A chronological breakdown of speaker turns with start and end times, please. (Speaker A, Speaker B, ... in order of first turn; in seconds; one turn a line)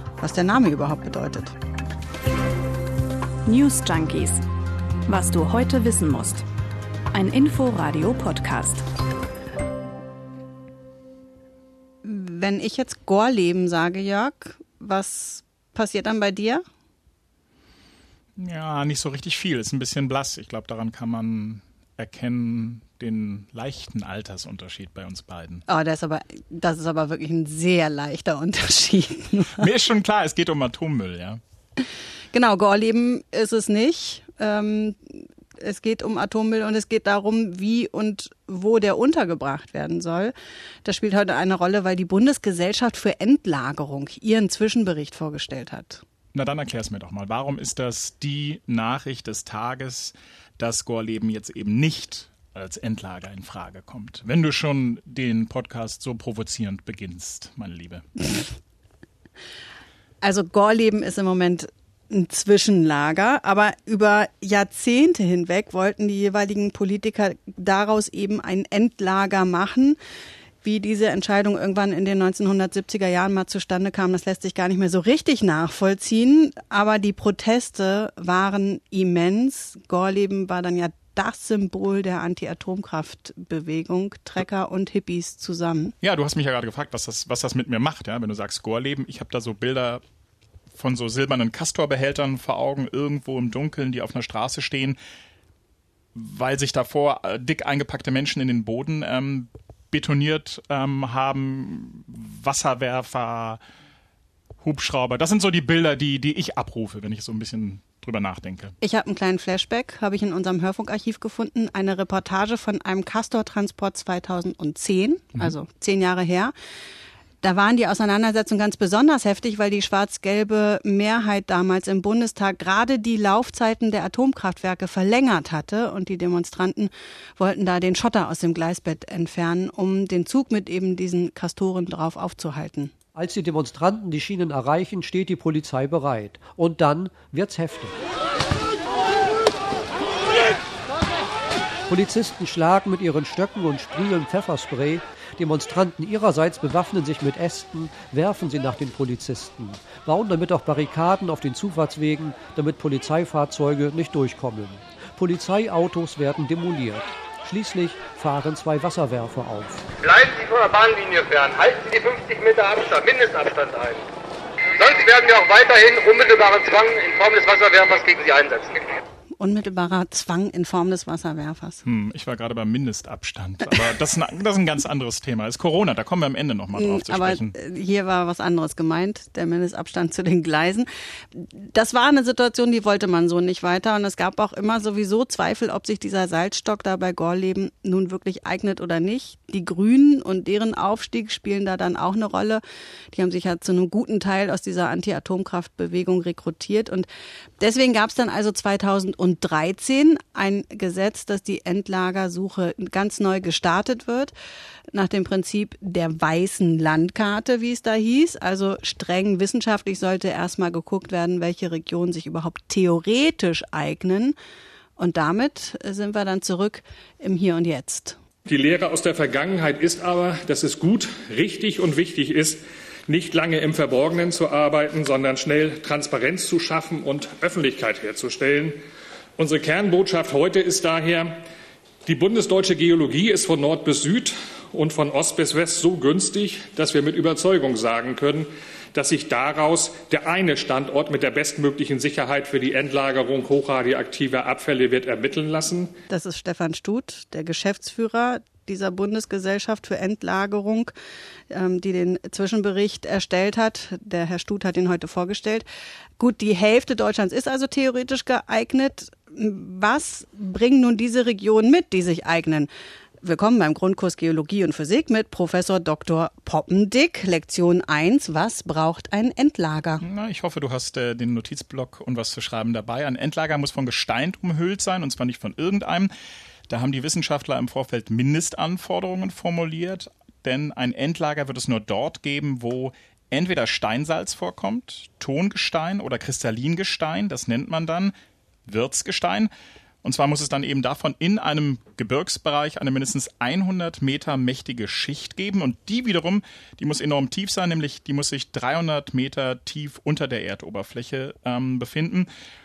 Speaker A: 0.2-1.5
Speaker B: 3.5-4.4
Speaker B: 5.1-6.4
Speaker B: 7.1-8.8
Speaker A: 12.0-16.6
Speaker C: 18.4-25.6
Speaker A: 25.7-29.7
Speaker C: 29.6-31.4
Speaker A: 32.3-46.0
Speaker C: 46.3-58.5
Speaker A: 60.2-70.0
Speaker A: 70.6-85.9
Speaker C: 86.0-90.0
Speaker C: 90.8-95.0
Speaker C: 96.1-103.6
Speaker C: 104.6-108.7
Speaker A: 108.8-116.5
Speaker A: 117.4-132.9
Speaker D: 133.1-137.9
Speaker D: 141.9-159.8
Speaker E: 160.0-164.1
Speaker E: 164.7-168.9
Speaker A: 169.4-171.8
Speaker C: 171.8-177.5
Speaker A: 176.8-197.1
Speaker A: 197.6-204.3
Speaker A: 204.9-214.3
Speaker A: 215.0-218.2
Speaker F: 218.5-228.8
Speaker F: 229.4-231.4
Speaker F: 232.1-245.9
Speaker A: 246.1-250.9
Speaker A: 251.5-255.7
Speaker A: 256.2-262.7
Speaker A: 263.2-270.0
Speaker C: 270.0-276.1
Speaker C: 276.7-288.1
Speaker C: 288.7-289.5
Speaker C: 290.0-302.3